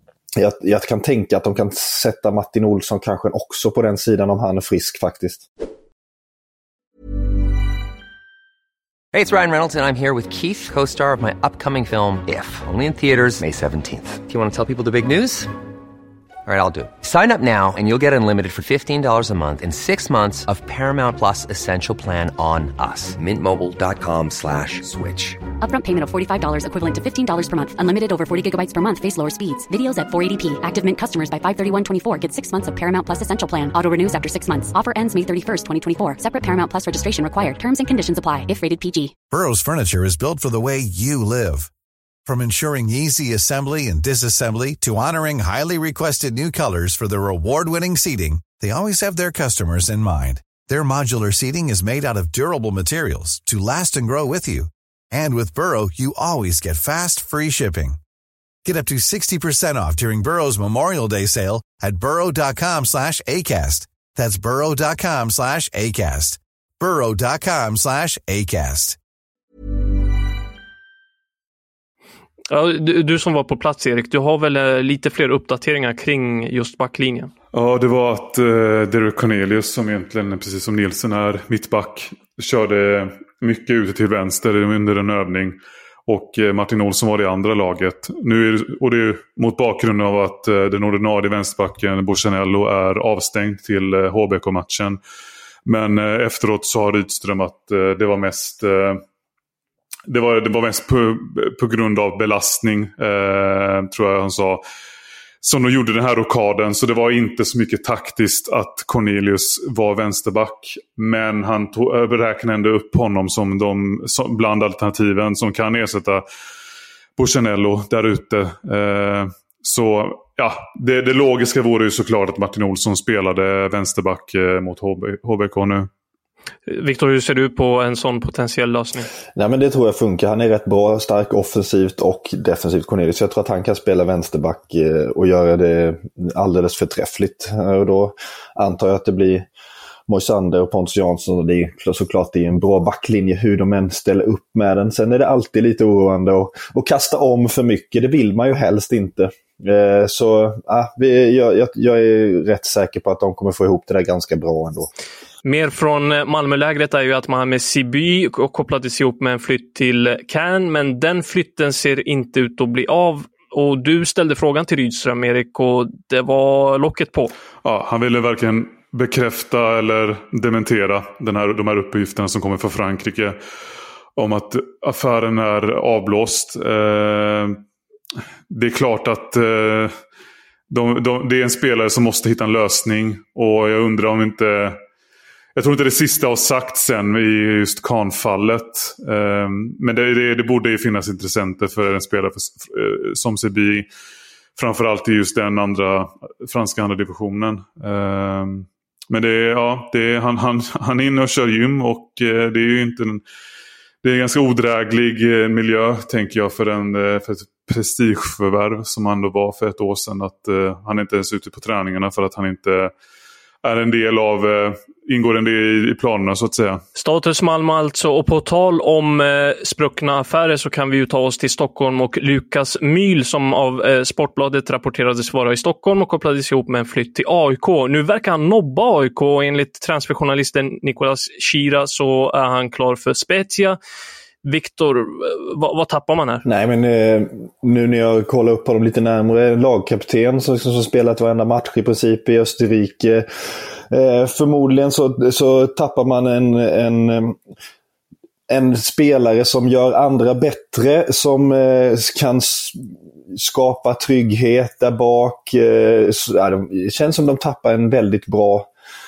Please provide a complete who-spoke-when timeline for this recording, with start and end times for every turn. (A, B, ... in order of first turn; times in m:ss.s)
0:00.4-0:05.5 A
0:09.1-0:15.5 B
0:16.4-0:24.0 B
0:25.6-0:39.1 C
0:39.3-0:41.7 D
0:42.2-0:58.0 D
0:58.6-1:09.0 D
1:12.5-1:17.3 E
1:17.5-1:35.0 F
1:35.6-1:39.0 F
1:40.1-1:44.6 F
1:45.4-1:56.2 F
1:57.2-2:05.9 F
2:06.7-2:09.1 E
2:09.4-2:19.4 A
2:20.1-2:34.9 A
2:35.4-2:47.3 E
2:47.6-2:53.4 F
2:54.2-2:57.6 F
2:58.5-2:59.9 F
3:00.7-3:04.8 F
3:05.6-3:13.9 F
3:14.6-3:23.2 F
3:24.0-3:32.9 F
3:33.6-3:36.8 F
3:36.9-3:53.8 E
3:54.4-3:56.4 E
3:56.4-4:03.2 A
4:03.9-4:07.4 A
4:08.5-4:18.7 A